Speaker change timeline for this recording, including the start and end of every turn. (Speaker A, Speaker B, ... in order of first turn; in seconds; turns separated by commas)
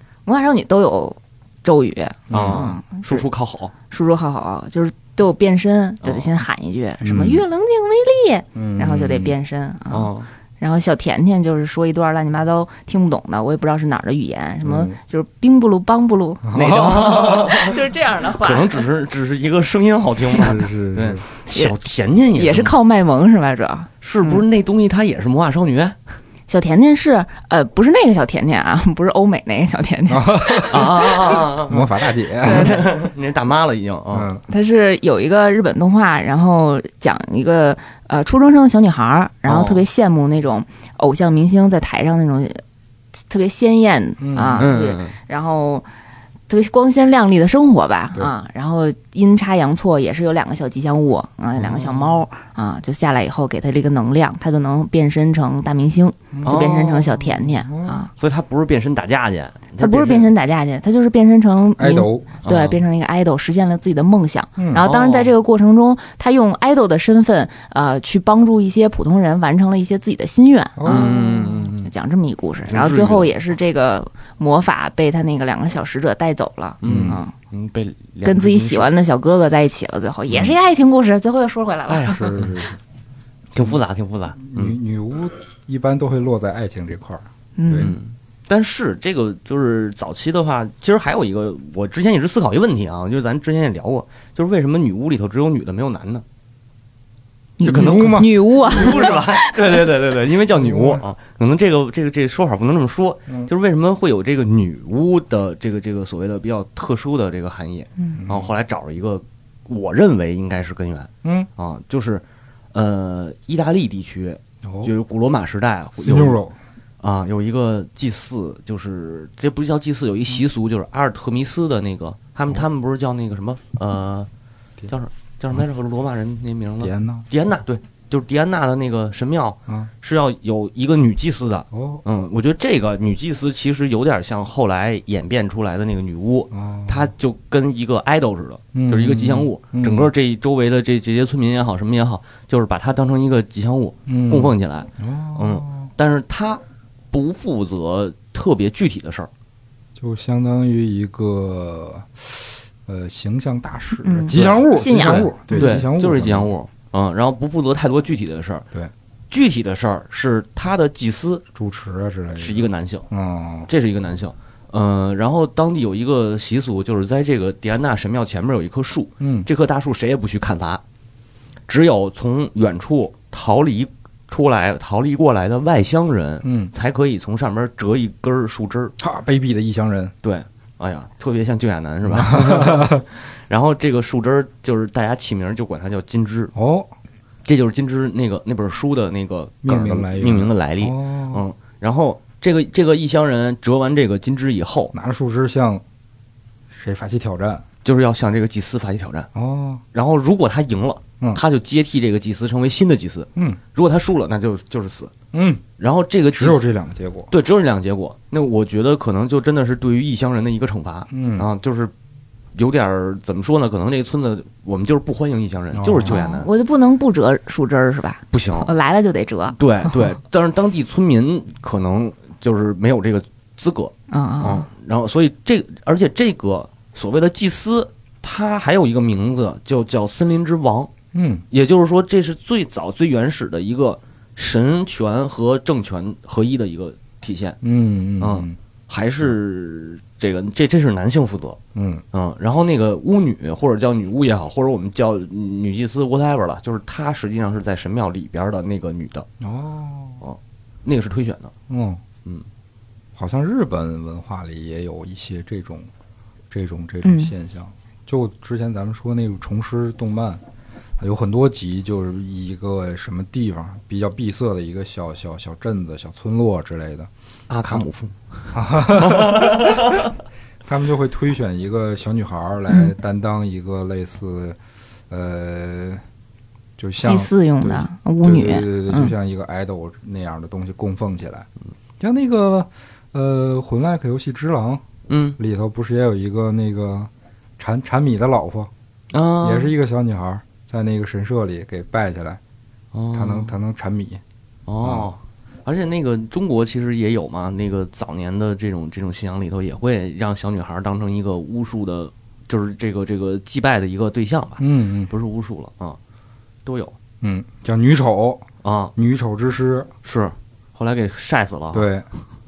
Speaker A: 0.2-3.2, Speaker B: 2.3-2.6, Speaker C: 2.3-3.7, Speaker A: 3.9-18.9, Speaker C: 6.0-6.3, Speaker B: 7.0-7.4, Speaker B: 8.5-9.3, Speaker C: 9.9-10.3, Speaker B: 14.6-15.0, Speaker B: 16.4-17.5, Speaker C: 16.6-17.8, Speaker C: 18.4-22.7, Speaker B: 20.4-21.2, Speaker A: 22.3-24.4, Speaker C: 24.0-26.0, Speaker A: 26.5-31.3, Speaker B: 30.1-32.9, Speaker C: 30.7-34.3, Speaker A: 32.4-32.9, Speaker B: 34.1-34.4, Speaker A: 34.5-42.6, Speaker C: 39.5-39.8, Speaker A: 43.3-45.9, Speaker B: 44.2-44.8, Speaker C: 44.5-45.1, Speaker A: 46.5-58.1, Speaker B: 51.6-52.2, Speaker B: 56.3-58.0, Speaker C: 56.4-57.1, Speaker C: 58.2-60.3, Speaker A: 59.8-77.3, Speaker B: 61.8-62.3, Speaker C: 62.4-62.8, Speaker B: 64.6-64.8, Speaker C: 64.8-65.3, Speaker B: 70.8-71.1, Speaker C: 70.8-71.9, Speaker C: 72.7-73.3, Speaker C: 76.8-78.9, Speaker B: 76.8-77.2, Speaker A: 78.2-82.3, Speaker C: 81.9-82.6, Speaker B: 82.1-82.8, Speaker C: 83.5-84.8, Speaker B: 84.4-88.0, Speaker A: 87.6-87.9, Speaker C: 87.8-96.2, Speaker B: 97.6-99.2, Speaker A: 97.6-99.9, Speaker C: 97.7-112.2, Speaker B: 100.5-101.0, Speaker B: 108.2-108.5, Speaker B: 111.2-111.5, Speaker C: 112.7-116.4, Speaker B: 114.6-114.9, Speaker B: 116.0-116.5, Speaker C: 117.0-124.3, Speaker C: 124.9-149.3, Speaker B: 126.8-127.3, Speaker B: 131.7-132.0, Speaker B: 136.5-137.1, Speaker B: 138.7-140.1, Speaker B: 144.1-145.9, Speaker B: 149.9-156.5, Speaker A: 154.0-155.8, Speaker C: 154.3-154.6, Speaker C: 155.5-158.7, Speaker C: 159.3-161.4, Speaker B: 161.5-163.7, Speaker C: 162.3-163.1, Speaker C: 163.7-170.8, Speaker B: 169.2-169.5, Speaker C: 171.7-178.9, Speaker B: 176.4-176.7, Speaker B: 179.0-180.1, Speaker C: 180.2-186.5, Speaker B: 182.1-183.0, Speaker B: 186.5-186.9, Speaker C: 187.4-194.9, Speaker B: 189.6-191.4, Speaker B: 194.9-195.8, Speaker B: 196.7-197.6, Speaker C: 197.8-199.3, Speaker B: 199.3-199.8, Speaker C: 199.9-205.1, Speaker B: 205.3-205.6, Speaker C: 205.8-206.6, Speaker B: 206.3-207.3, Speaker C: 207.3-211.9, Speaker B: 211.1-211.5, Speaker C: 212.5-216.5, Speaker B: 215.7-216.2, Speaker A: 216.0-219.6, Speaker C: 218.3-218.7, Speaker C: 219.5-230.9, Speaker A: 224.1-224.7, Speaker B: 231.1-231.4, Speaker C: 231.5-237.6, Speaker B: 237.6-238.6, Speaker C: 238.2-241.6, Speaker B: 241.7-242.0, Speaker C: 242.1-249.3, Speaker B: 249.4-250.2, Speaker C: 250.2-251.5, Speaker B: 251.7-252.0, Speaker B: 253.2-255.9, Speaker B: 256.5-260.4, Speaker A: 257.0-257.3, Speaker B: 261.0-267.1, Speaker C: 267.5-268.1, Speaker B: 268.5-269.8, Speaker C: 268.9-270.0, Speaker B: 270.6-274.6, Speaker A: 272.7-272.9, Speaker B: 275.1-276.0, Speaker B: 276.8-281.5, Speaker A: 277.0-279.1, Speaker B: 282.0-284.8, Speaker C: 285.1-285.4, Speaker B: 285.4-288.7, Speaker C: 289.1-289.7, Speaker B: 289.4-292.4, Speaker C: 292.9-293.5, Speaker B: 293.1-294.2, Speaker C: 294.7-306.0, Speaker B: 294.8-295.1, Speaker B: 304.6-305.1, Speaker C: 306.6-306.9, Speaker B: 307.2-309.9, Speaker C: 308.6-308.9, Speaker C: 310.0-311.9, Speaker B: 311.7-312.1